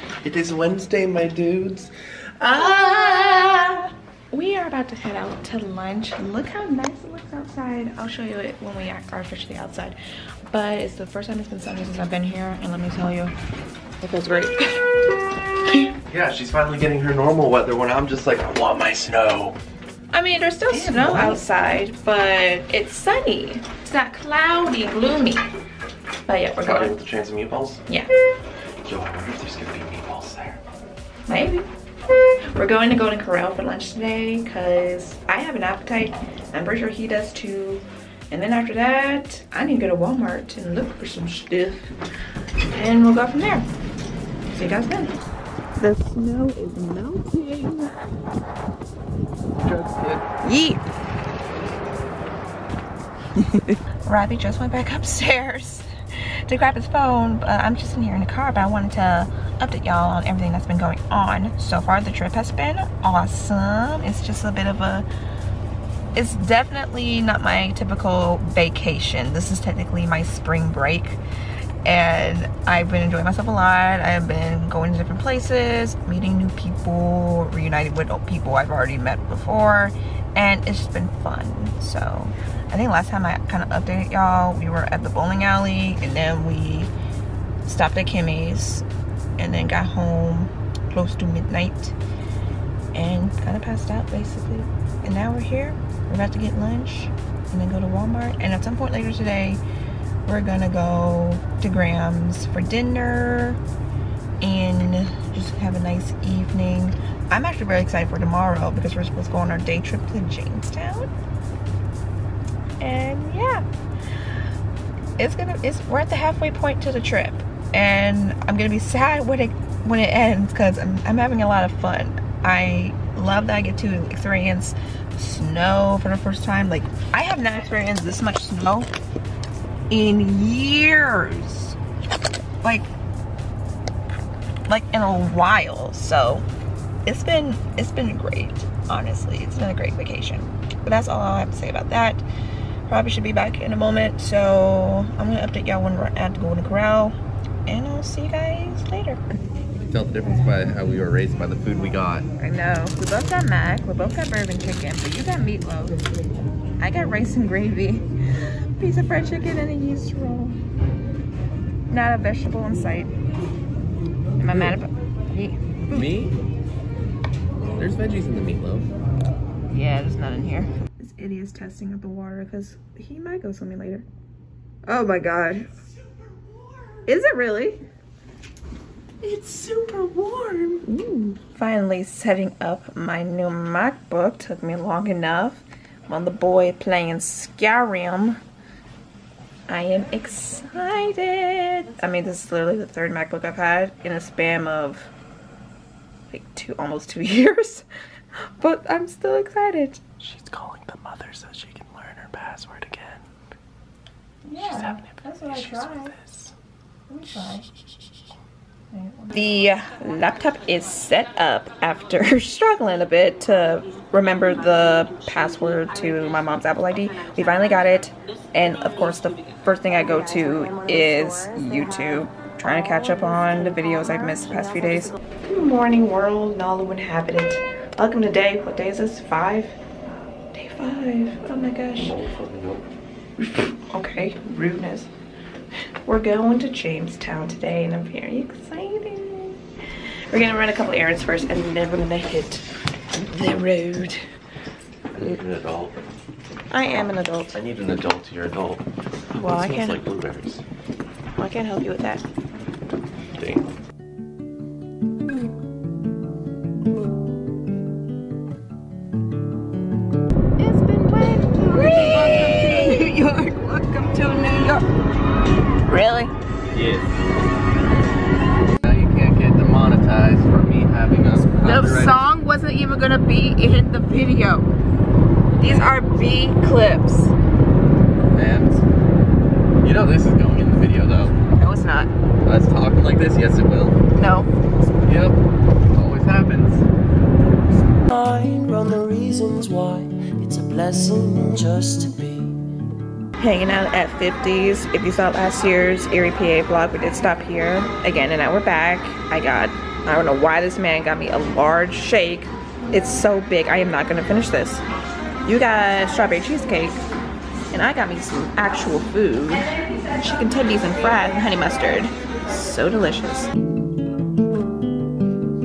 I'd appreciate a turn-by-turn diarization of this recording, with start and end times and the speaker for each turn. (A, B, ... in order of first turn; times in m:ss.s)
0:00.2-0:03.7 A
0:02.6-0:10.0 B
0:10.5-0:13.3 B
0:14.0-0:14.9 B
0:15.6-0:15.9 B
0:16.1-0:19.6 A
0:20.1-0:25.4 B
0:20.7-0:21.4 A
0:26.2-0:27.0 B
0:26.6-0:27.8 A
0:28.8-0:30.6 A
0:31.3-0:31.7 B
0:32.5-0:41.9 B
0:42.7-0:43.7 B
0:44.5-0:45.1 B
0:45.8-0:47.9 B
0:49.6-0:50.2 A
0:50.4-0:50.8 B
0:53.4-0:55.9 B
0:56.4-1:05.1 B
1:06.1-1:11.2 B
1:11.8-1:26.9 B
1:27.6-1:28.8 B
1:29.4-1:32.0 B
1:32.9-1:39.6 B
1:40.2-1:43.6 B
1:44.4-1:51.1 B
1:52.8-1:53.6 B
1:55.2-2:08.9 B
2:09.9-2:11.8 B
2:12.6-2:12.9 B
2:14.7-2:16.4 B
2:17.0-2:22.2 B
2:22.9-2:29.2 B
2:29.9-2:32.2 A
2:32.4-2:36.0 B
2:36.8-2:38.0 B
2:38.8-2:40.6 B
2:41.9-2:43.1 B
2:44.4-2:46.1 B
2:44.5-2:44.8 A
2:45.9-2:46.4 A
2:47.7-2:48.9 A
2:49.7-2:54.0 B
2:54.8-2:55.7 B
2:57.0-2:57.8 B
2:59.2-3:00.8 A
3:00.8-3:08.4 B
3:09.7-3:15.1 B
3:16.3-3:17.9 B
3:18.6-3:20.0 B
3:20.2-3:23.2 A
3:24.4-3:26.2 B
3:24.6-3:26.5 A
3:27.1-3:27.7 B
3:28.9-3:49.8 B
3:50.5-3:52.1 B
3:52.0-3:52.8 A
3:53.4-3:55.1 B
3:56.0-3:59.6 B
4:00.3-4:02.6 B
4:03.2-4:04.2 B
4:05.1-4:06.0 A
4:06.7-4:07.5 B
4:07.5-4:10.6 A
4:09.3-4:10.0 B
4:11.4-4:12.2 B
4:13.4-4:13.7 A
4:20.6-4:24.9 B
4:25.8-4:26.3 B
4:26.7-4:27.1 A
4:28.8-4:32.2 A
4:31.6-4:34.7 B
4:35.6-4:37.3 B
4:38.3-4:38.8 A
4:39.8-4:41.3 A
4:41.5-4:42.1 B
4:42.4-4:44.0 A
4:44.1-4:44.5 B
4:45.0-4:45.4 A
4:45.9-4:46.8 A
4:48.1-4:52.6 C
4:53.4-5:04.8 B
5:05.4-5:07.0 B
5:07.7-5:13.5 B